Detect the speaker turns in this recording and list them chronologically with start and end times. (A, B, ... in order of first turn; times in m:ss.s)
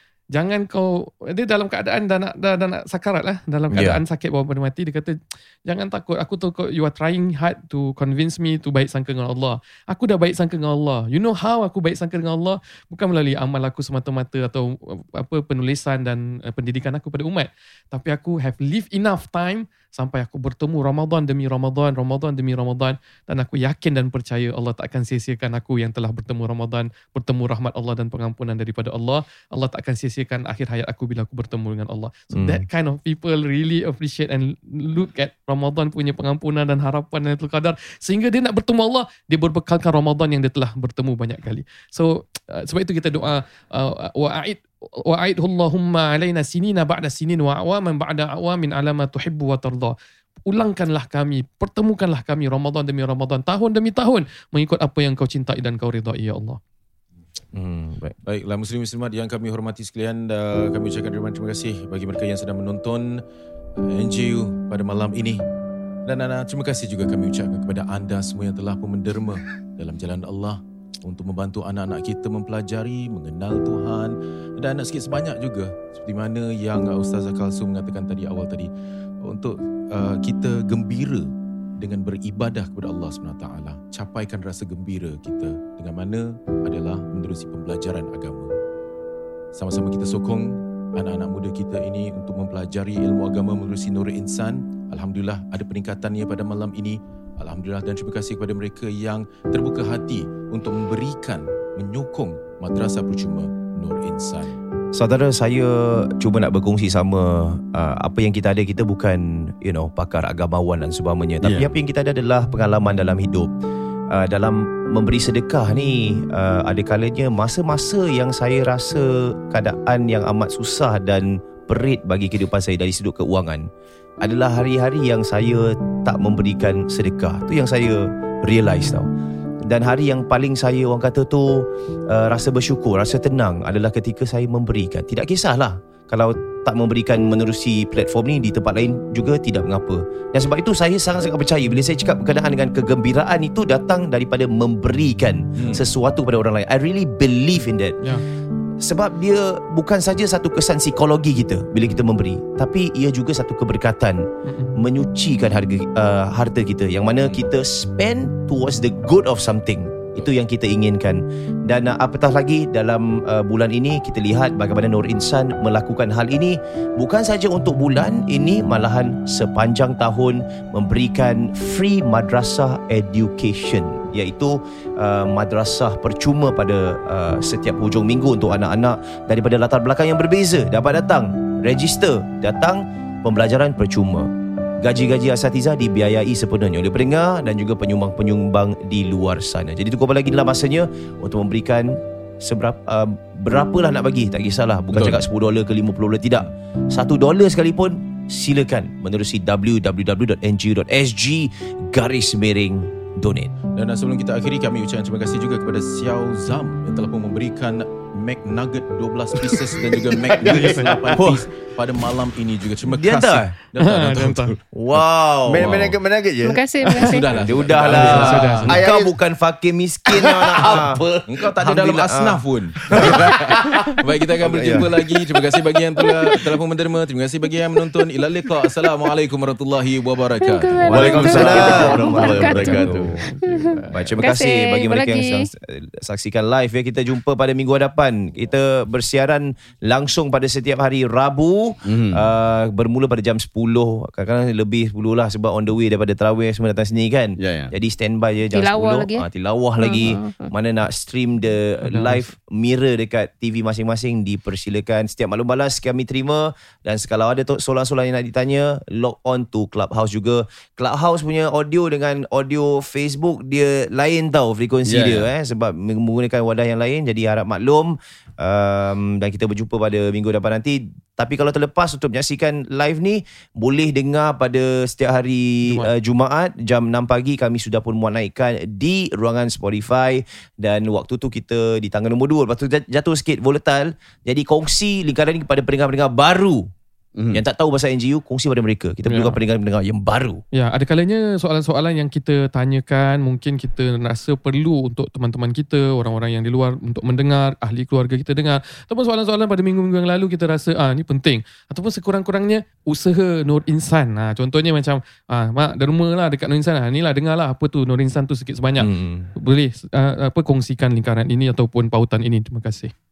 0:00.3-0:49.9 A
0:03.7-0:04.0 B
0:32.3-0:32.6 B
0:50.4-0:56.6 A
0:57.5-0:58.2 B
0:58.2-1:03.2 C
1:03.8-1:05.4 C
1:06.0-1:18.7 C
1:19.2-1:21.2 C
1:21.8-1:28.5 C
1:29.5-1:44.5 C
1:44.9-1:53.5 B
1:51.4-1:51.7 D
1:54.1-2:03.7 B
2:04.2-2:09.1 B
2:09.6-2:28.0 B
2:25.6-2:25.8 C
2:28.8-3:04.3 B
2:34.4-2:34.8 A
3:04.8-3:23.5 B
3:14.9-3:15.2 C
3:23.7-3:35.0 C
3:30.3-3:30.9 D
3:30.5-3:31.0 A
3:31.1-3:31.4 B
3:32.9-3:33.5 B
3:33.8-3:34.6 A
3:34.7-3:35.7 B
3:35.4-3:36.6 D
3:35.6-3:36.0 C
3:36.4-3:37.4 E
3:36.8-3:37.2 A
3:37.0-3:38.7 C
3:37.3-3:44.9 B
3:37.8-3:39.2 D
3:37.9-3:38.8 A
3:40.1-3:41.0 D
3:41.3-3:51.9 C
3:46.0-3:46.4 E
3:50.4-3:55.5 E
3:50.9-3:53.2 D
3:50.9-3:53.2 B
3:53.2-3:54.2 A
3:53.9-4:46.7 B
4:01.8-4:02.3 D
4:07.4-4:07.7 D
4:08.5-4:09.3 E
4:09.8-4:10.5 E
4:11.8-4:12.3 A
4:24.8-4:25.3 D
4:35.6-4:35.9 A
4:47.2-4:47.4 D
4:47.3-4:50.4 B
4:49.0-4:49.4 A
4:50.5-5:12.9 A
5:08.8-5:09.3 B